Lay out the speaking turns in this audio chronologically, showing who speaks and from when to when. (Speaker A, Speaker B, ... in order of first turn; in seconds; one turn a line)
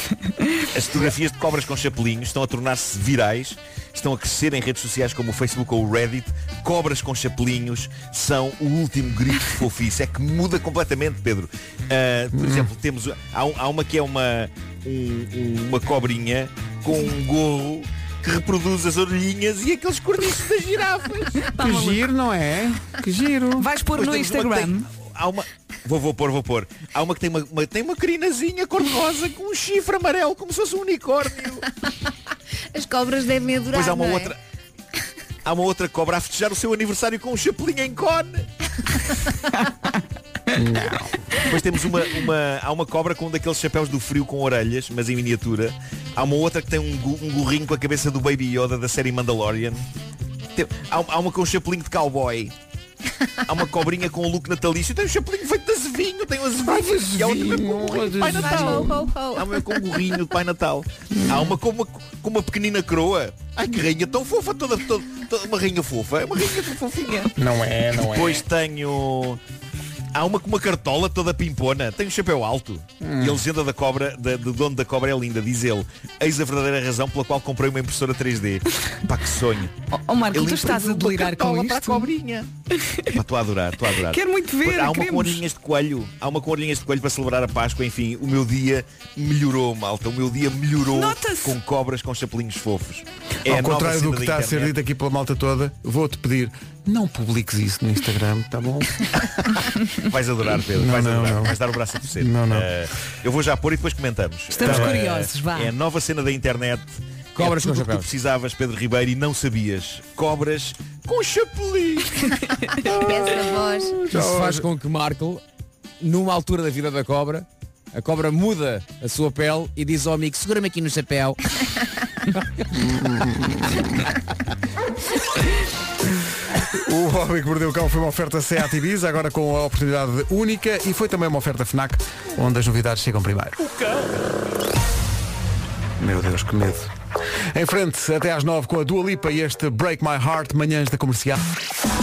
Speaker A: 0.7-21.5
Speaker B: 12.3-12.7
Speaker C: 21.5-22.0
Speaker B: 21.6-23.7
Speaker C: 23.6-24.9
Speaker A: 23.9-31.6
Speaker D: 32.7-34.3
Speaker A: 33.7-34.4
Speaker A: 35.5-38.4
Speaker B: 40.5-41.2
Speaker A: 41.5-49.8
Speaker A: 50.5-52.5
Speaker A: 53.5-67.3
Speaker B: 56.7-59.1
Speaker D: 58.0-60.1
Speaker B: 61.1-61.5
Speaker B: 67.4-68.4
Speaker A: 68.0-69.4
Speaker A: 70.1-79.7
Speaker B: 73.0-73.4
Speaker C: 79.9-82.1
Speaker A: 80.3-82.5
Speaker A: 83.1-94.8
Speaker C: 84.1-85.4
Speaker C: 90.9-91.6
Speaker B: 93.5-98.9
Speaker A: 100.1-112.1
Speaker B: 100.7-101.5
Speaker B: 102.2-102.7
Speaker C: 104.5-105.7
Speaker B: 104.6-105.0
Speaker E: 107.3-108.1
Speaker A: 112.9-113.1
Speaker D: 112.9-114.0
Speaker E: 114.1-115.4
Speaker B: 114.1-114.7
Speaker E: 116.0-121.4
Speaker B: 122.7-124.1
Speaker B: 126.7-133.6
Speaker B: 136.0-136.9
Speaker B: 137.5-141.4